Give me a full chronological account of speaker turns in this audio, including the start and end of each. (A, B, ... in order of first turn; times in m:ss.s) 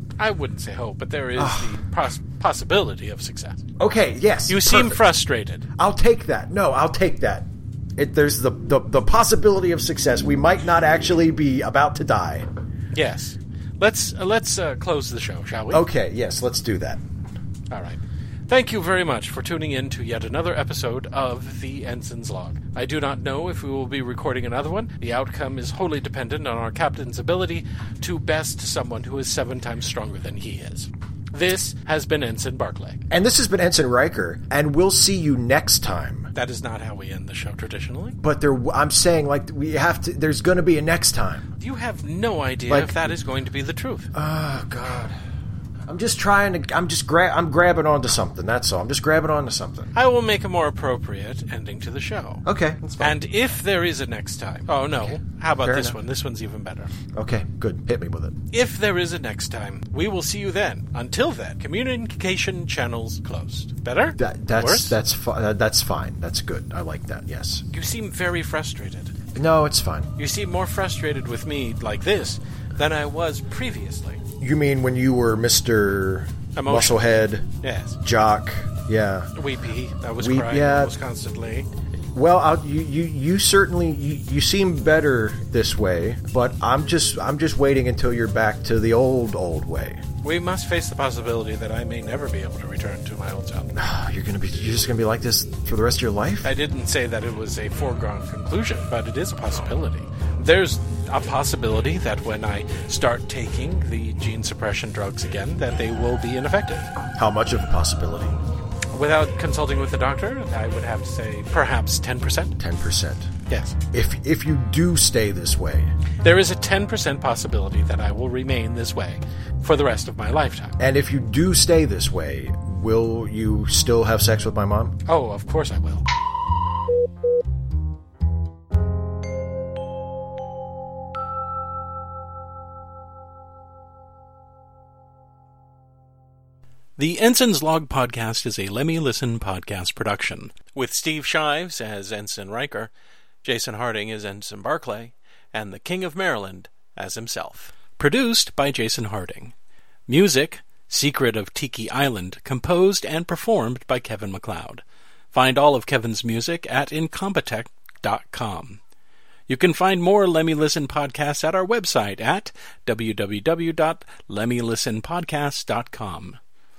0:00.2-0:03.6 A
0:01.4-0:01.7 B
0:03.8-0:05.0 B
0:04.5-0:05.6 A
0:05.8-0:12.5 B
0:12.9-0:15.9 A
0:15.7-0:17.0 B
0:17.7-0:33.0 A
0:33.1-0:36.3 B
0:36.3-0:38.2 A
0:38.2-0:41.4 B
0:41.6-0:44.1 A
0:42.7-0:43.0 B
0:44.1-0:45.1 B
0:45.9-0:49.9 B
0:49.9-0:52.4 A
0:52.4-0:53.2 B
0:53.0-0:56.9 A
0:55.6-0:56.0 B
0:57.1-0:58.3 B
0:58.5-1:05.0 A
1:04.2-1:07.6 B
1:07.7-1:09.1 A
1:09.3-1:10.1 B
1:10.2-1:14.2 A
1:14.4-1:17.4 B
1:16.6-1:18.0 A
1:18.0-1:19.3 B
1:19.3-1:21.7 A
1:20.2-1:20.9 B
1:22.1-1:30.0 B
1:30.2-1:33.8 A
1:33.8-1:36.5 B
1:36.4-1:46.9 A
1:47.1-1:48.4 B
1:48.9-1:52.6 A
1:52.6-1:53.3 B
1:53.5-1:53.8 A
1:53.9-1:55.9 B
1:56.2-2:00.8 A
2:00.8-2:05.0 B
2:05.1-2:06.0 A
2:17.0-2:22.9 A
2:23.4-2:29.5 A
2:30.1-2:38.8 A
2:39.5-2:46.4 A